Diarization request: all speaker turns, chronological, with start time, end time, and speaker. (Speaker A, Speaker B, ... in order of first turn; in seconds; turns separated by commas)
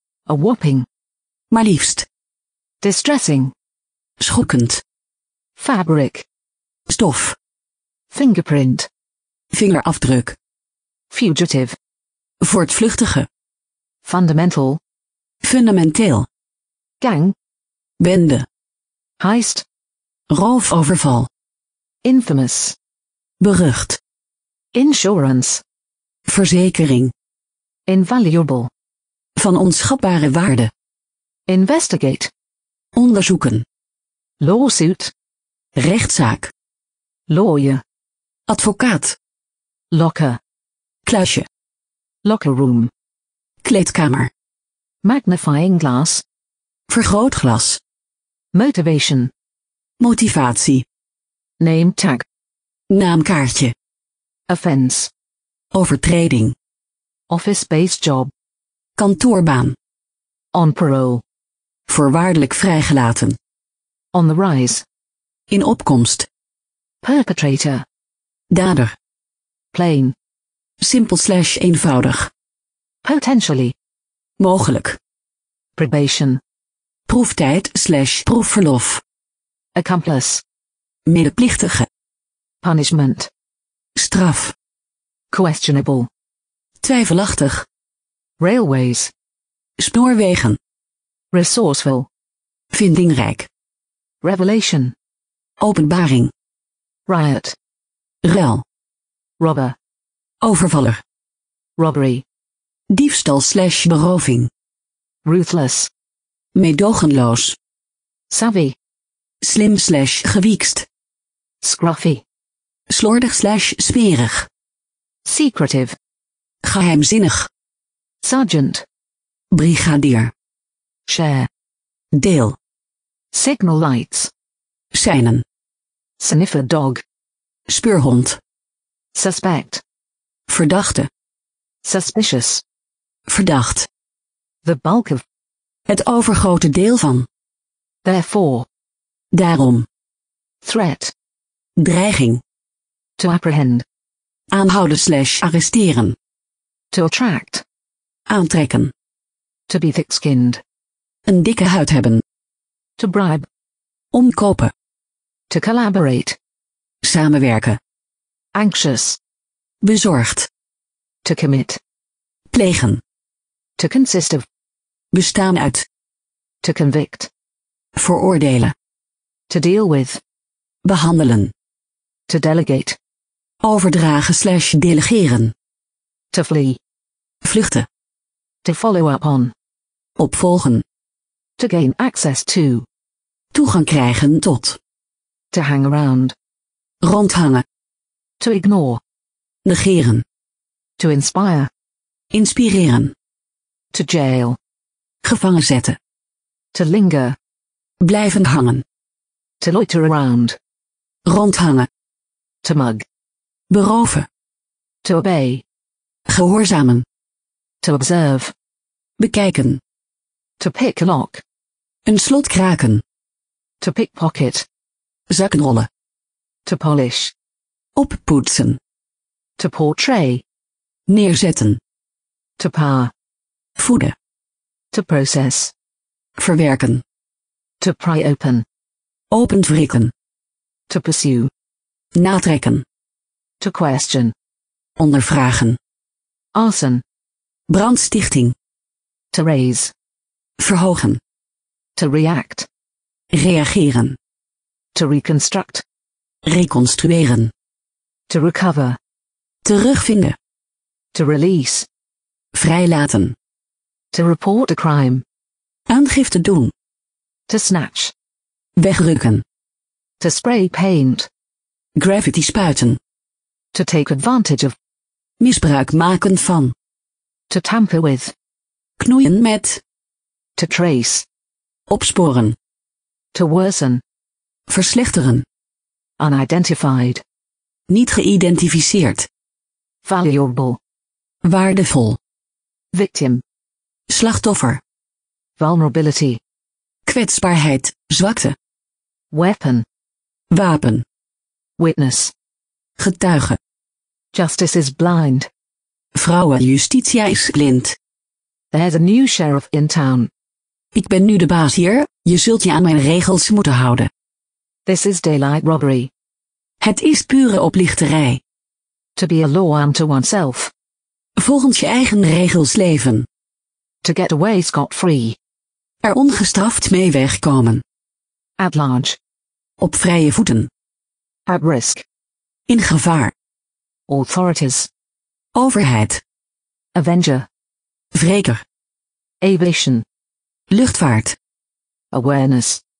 Speaker A: 0.3-0.9, Speaker B: 1.5-2.1, Speaker A: 2.8-3.5, Speaker B: 4.2-4.8, Speaker A: 5.6-6.2, Speaker B: 6.9-7.3, Speaker A: 8.1-8.9, Speaker B: 9.5-10.4, Speaker A: 11.1-11.8, Speaker B: 12.4-13.3, Speaker A: 14.0-14.8, Speaker B: 15.4-16.3, Speaker A: 17.0-17.3, Speaker B: 18.0-18.4, Speaker A: 19.2-19.6, Speaker B: 20.3-21.3, Speaker A: 22.0-22.8, Speaker B: 23.4-24.0, Speaker A: 24.7-25.6, Speaker B: 26.3-27.1, Speaker A: 27.9-28.7, Speaker B: 29.4-30.7, Speaker A: 31.5-32.3, Speaker B: 32.9-33.6, Speaker A: 34.4-35.1, Speaker B: 35.8-36.5, Speaker A: 37.3-37.8, Speaker B: 38.5-39.2, Speaker A: 39.9-40.4, Speaker B: 41.0-41.5, Speaker A: 42.2-42.9, Speaker B: 43.6-44.3, Speaker A: 45.0-46.2, Speaker B: 46.9-47.8, Speaker A: 48.5-49.3, Speaker B: 50.0-50.8, Speaker A: 51.6-52.2, Speaker B: 52.9-53.7, Speaker A: 54.5-55.1, Speaker B: 55.7-56.5, Speaker A: 57.3-58.3, Speaker B: 59.0-59.8, Speaker A: 60.5-61.2, Speaker B: 61.9-63.4, Speaker A: 64.1-64.8, Speaker B: 65.5-66.3, Speaker A: 67.0-67.8, Speaker B: 68.5-68.9, Speaker A: 69.7-70.1, Speaker B: 70.8-72.3, Speaker A: 73.0-73.7, Speaker B: 74.4-75.0, Speaker A: 75.8-76.4, Speaker B: 77.1-79.0, Speaker A: 79.8-80.4, Speaker B: 81.0-81.9, Speaker A: 82.6-83.3, Speaker B: 84.0-84.5, Speaker A: 85.3-86.1, Speaker B: 86.8-87.7, Speaker A: 88.4-89.1, Speaker B: 89.8-90.6, Speaker A: 91.3-92.1, Speaker B: 92.7-93.5, Speaker A: 94.2-94.9, Speaker B: 95.6-96.3, Speaker A: 97.1-97.5, Speaker B: 98.2-98.6, Speaker A: 99.4-99.8, Speaker B: 100.4-101.0, Speaker A: 101.8-102.2, Speaker B: 102.9-104.5, Speaker A: 105.2-105.9, Speaker B: 106.5-107.6, Speaker A: 108.3-108.8, Speaker B: 109.4-110.8, Speaker A: 111.6-112.2, Speaker B: 112.9-114.5, Speaker A: 115.2-116.0, Speaker B: 116.6-117.5, Speaker A: 118.2-118.8, Speaker B: 119.5-120.3, Speaker A: 121.0-121.5, Speaker B: 122.1-122.6, Speaker A: 123.3-124.3, Speaker B: 124.9-125.4, Speaker A: 126.2-127.0, Speaker B: 127.7-128.4, Speaker A: 129.1-129.8, Speaker B: 130.5-131.1, Speaker A: 131.8-132.6, Speaker B: 133.3-133.9, Speaker A: 134.6-135.2, Speaker B: 135.9-137.3, Speaker A: 138.0-138.7, Speaker B: 139.3-139.9, Speaker A: 140.6-141.1, Speaker B: 141.8-142.4, Speaker A: 143.2-143.8, Speaker B: 144.5-146.2, Speaker A: 146.9-147.6, Speaker B: 148.3-148.9, Speaker A: 149.7-150.6, Speaker B: 151.2-152.2, Speaker A: 153.0-153.5, Speaker B: 154.1-154.7, Speaker A: 155.5-156.4, Speaker B: 157.0-157.8, Speaker A: 158.5-159.2, Speaker B: 159.8-160.5, Speaker A: 161.2-161.8, Speaker B: 162.5-163.0, Speaker A: 163.8-164.4, Speaker B: 165.1-165.8, Speaker A: 166.6-167.3, Speaker B: 167.9-168.7, Speaker A: 169.5-170.2, Speaker B: 170.8-171.5, Speaker A: 172.3-173.0, Speaker B: 173.6-175.5, Speaker A: 176.3-176.8, Speaker B: 177.4-177.9, Speaker A: 178.6-179.5, Speaker B: 180.2-180.8, Speaker A: 181.6-182.8, Speaker B: 183.5-184.8, Speaker A: 185.5-186.3, Speaker B: 187.0-187.6, Speaker A: 188.4-189.0, Speaker B: 189.6-190.2, Speaker A: 191.0-191.7, Speaker B: 192.3-193.1, Speaker A: 193.9-194.6, Speaker B: 195.2-196.0, Speaker A: 196.7-197.4, Speaker B: 198.0-198.8, Speaker A: 199.6-200.6, Speaker B: 201.2-201.9, Speaker A: 202.6-203.0, Speaker B: 203.7-204.3, Speaker A: 205.0-205.6, Speaker B: 206.3-207.1, Speaker A: 207.8-208.5, Speaker B: 209.2-209.8, Speaker A: 210.6-211.4, Speaker B: 212.1-213.0, Speaker A: 213.8-214.7, Speaker B: 215.3-215.9, Speaker A: 216.6-217.3, Speaker B: 217.9-218.8, Speaker A: 219.6-220.4, Speaker B: 221.1-221.8, Speaker A: 222.6-223.1, Speaker B: 223.8-224.1, Speaker A: 224.9-225.7, Speaker B: 226.4-227.0, Speaker A: 227.8-228.6, Speaker B: 229.3-230.1, Speaker A: 230.9-231.5, Speaker B: 232.1-232.8, Speaker A: 233.6-234.3, Speaker B: 235.0-235.8, Speaker A: 236.5-237.0, Speaker B: 237.7-238.5, Speaker A: 239.3-239.9, Speaker B: 240.6-241.2, Speaker A: 241.9-242.7, Speaker B: 243.3-244.2, Speaker A: 244.9-245.8, Speaker B: 246.4-247.5, Speaker A: 248.3-249.0, Speaker B: 249.6-250.4, Speaker A: 251.1-251.9, Speaker B: 252.5-253.3, Speaker A: 254.1-255.2, Speaker B: 255.9-256.7, Speaker A: 257.5-258.1, Speaker B: 258.8-259.4, Speaker A: 260.2-261.3, Speaker B: 261.9-263.0, Speaker A: 263.7-264.8, Speaker B: 265.4-266.7, Speaker A: 267.5-268.3, Speaker B: 269.0-269.8, Speaker A: 270.6-271.2, Speaker B: 271.9-272.6, Speaker A: 273.3-274.0, Speaker B: 274.7-275.4, Speaker A: 276.2-277.2, Speaker B: 277.9-279.3, Speaker A: 280.0-280.8, Speaker B: 281.4-282.2, Speaker A: 282.9-283.4, Speaker B: 284.1-284.8, Speaker A: 285.6-286.4, Speaker B: 287.1-288.6, Speaker A: 289.3-289.9, Speaker B: 290.5-291.0, Speaker A: 291.8-292.3, Speaker B: 293.0-293.6, Speaker A: 294.3-295.5, Speaker B: 296.1-297.9, Speaker A: 298.7-300.3, Speaker B: 300.9-304.1, Speaker A: 304.9-306.1, Speaker B: 306.8-308.4, Speaker A: 309.1-310.7, Speaker B: 311.4-313.3, Speaker A: 314.0-315.4, Speaker B: 316.0-317.8, Speaker A: 318.6-319.2, Speaker B: 319.8-320.7, Speaker A: 321.5-322.0, Speaker B: 322.7-323.3, Speaker A: 324.1-324.9, Speaker B: 325.5-326.2, Speaker A: 326.9-327.5, Speaker B: 328.1-328.6, Speaker A: 329.4-330.0, Speaker B: 330.7-331.4, Speaker A: 332.1-332.8